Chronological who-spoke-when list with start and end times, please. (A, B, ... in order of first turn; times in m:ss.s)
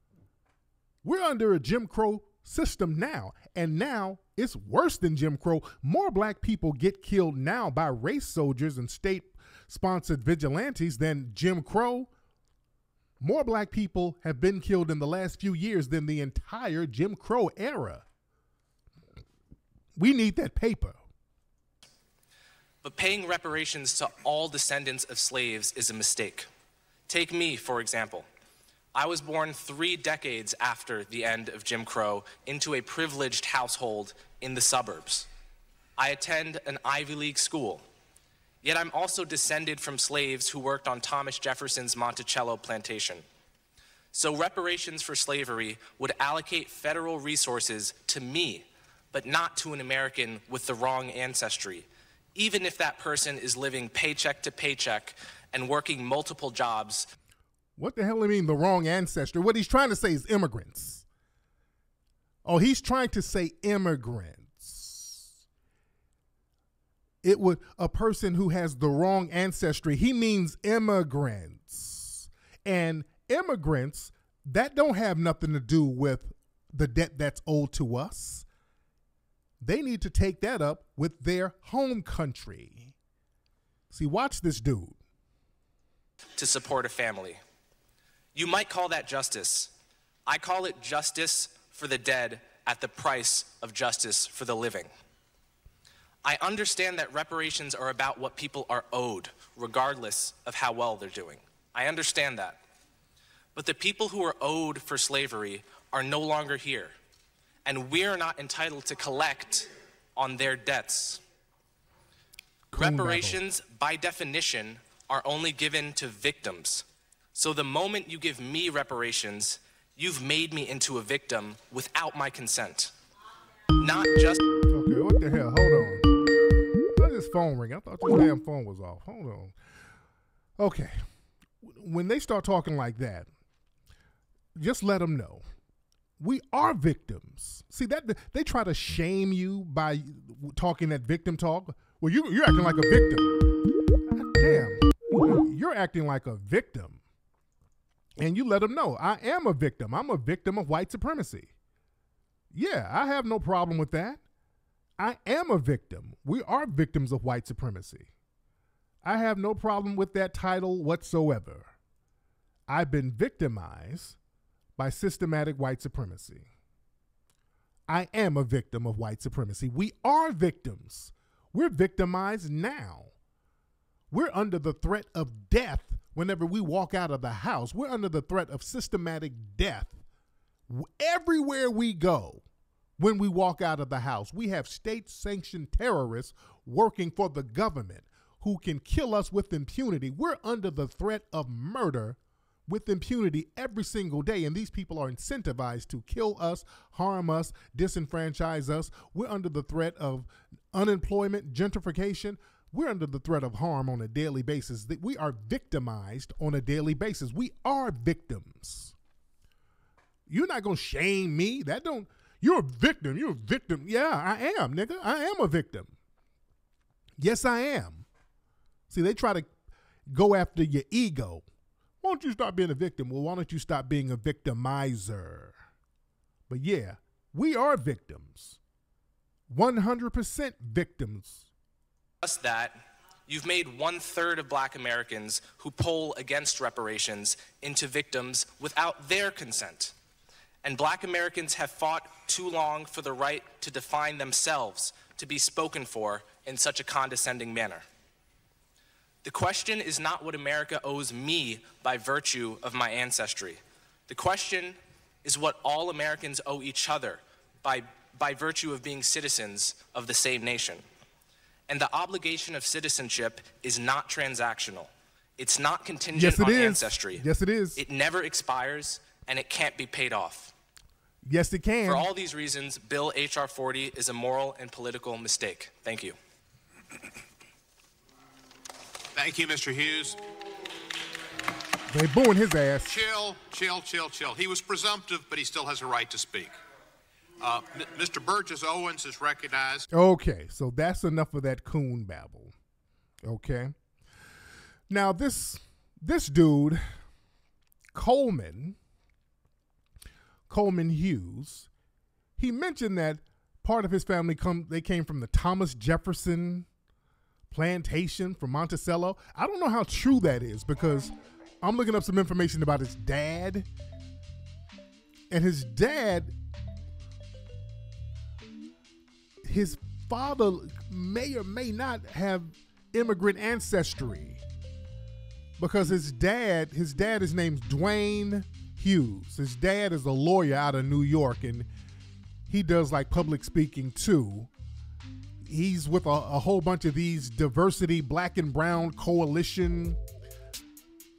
0:01.0-0:12.1 A
0:13.2-0:18.0 A
0:20.0-0:21.0 A
0:22.8-0:26.5 B
0:27.1-0:28.3 B
0:29.0-0:35.3 B
0:36.0-0:37.8 B
0:38.6-0:43.2 B
0:44.1-0:57.1 B
0:57.8-1:01.0 A
1:02.4-1:05.3 A
1:07.2-1:18.5 A
1:19.6-1:22.9 A
1:23.9-1:25.0 A
1:26.4-1:27.4 B
1:28.4-1:29.7 B
1:30.3-1:34.9 B
1:36.2-1:42.6 B
1:43.6-1:46.9 B
1:47.7-1:51.2 B
1:52.7-1:53.4 A
1:52.8-2:02.9 B
2:03.8-2:04.4 B
2:04.7-2:06.1 A
2:07.0-2:09.5 A
2:10.6-2:11.0 A
2:11.6-2:13.3 A
2:14.6-2:15.4 A
2:16.2-2:23.4 A
2:24.1-2:27.0 A
2:28.2-2:31.5 A
2:32.5-2:34.2 A
2:35.0-2:38.1 A
2:39.0-2:41.7 A
2:42.7-2:44.2 A
2:44.8-2:46.5 A
2:47.9-2:53.1 A
2:54.1-3:00.0 A
3:00.7-3:02.4 A
3:03.0-3:28.9 A
3:30.3-3:35.9 A
3:37.2-3:38.1 A
3:38.9-3:39.5 A
3:40.1-3:41.4 A
3:42.0-3:45.6 A
3:46.5-3:48.6 A
3:49.5-3:51.5 A
3:52.2-3:59.9 B
4:00.6-4:07.8 B
4:09.2-4:20.8 B
4:21.7-4:27.2 B
4:26.2-4:27.8 A
4:27.8-4:30.5 B
4:31.2-4:32.1 A
4:31.9-4:36.2 B
4:39.2-4:40.2 C
4:41.9-4:43.0 A
4:42.9-4:46.5 C
4:47.4-4:49.8 C
4:49.9-4:52.5 A
4:53.2-4:53.7 A
4:54.9-4:56.8 A
4:57.9-4:58.8 A
5:00.5-5:01.7 A
5:02.4-5:06.7 A
5:07.5-5:13.7 A
5:15.3-5:16.3 A
5:19.4-5:24.4 A
5:25.6-5:31.7 A
5:32.5-5:34.5 A
5:35.5-5:40.0 A